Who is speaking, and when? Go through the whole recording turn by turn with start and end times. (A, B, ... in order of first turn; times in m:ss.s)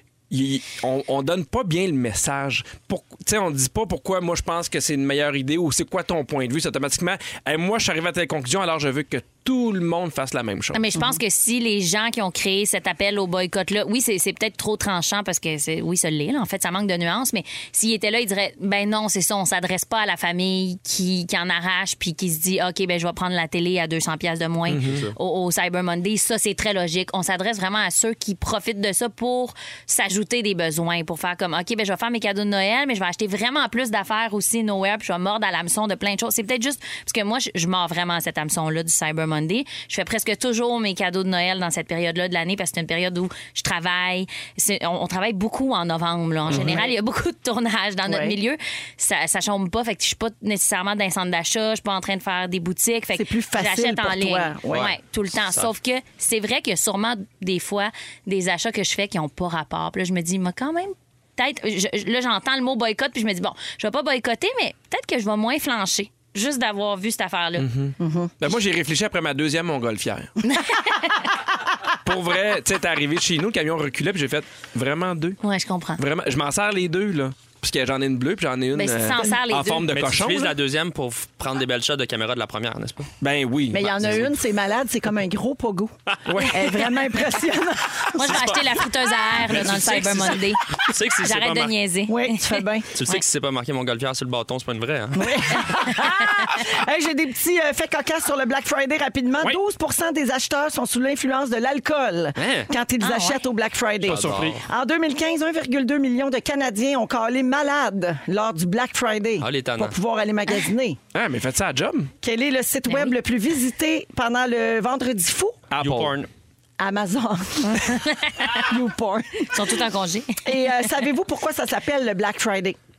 0:00.3-0:10.8 A
0:10.7-1:07.7 B
0:24.7-0:25.1 A
0:46.5-0:46.8 C
0:46.5-0:47.0 D
0:48.1-0:48.4 D
0:53.1-0:54.9 D
1:07.6-1:10.3 A
1:08.0-1:08.4 D
1:10.5-1:11.1 B
1:12.0-1:15.4 A
1:15.4-1:16.0 B
1:16.0-1:20.6 A
1:18.7-1:19.9 B
1:19.9-1:23.1 C
1:23.2-1:24.3 A
1:23.7-1:28.4 D
1:26.3-1:26.6 A
1:28.2-1:30.6 B
1:28.2-1:28.6 C
1:29.5-1:30.3 A
1:30.8-1:31.7 C
1:31.2-1:33.2 B
1:32.1-1:32.9 D
1:32.9-1:35.4 C
1:35.2-1:51.0 D
1:42.4-1:42.7 C
1:43.0-1:43.4 B
1:44.0-1:44.6 C
1:44.0-1:44.6 A
1:49.4-1:50.0 C
1:51.1-1:52.1 A
1:52.2-1:55.6 D
1:52.9-1:53.2 B
1:55.7-1:56.2 A
1:55.8-1:56.3 C
1:56.8-1:59.5 D
1:57.8-1:58.6 B
1:59.5-2:00.4 B
2:00.4-2:02.8 D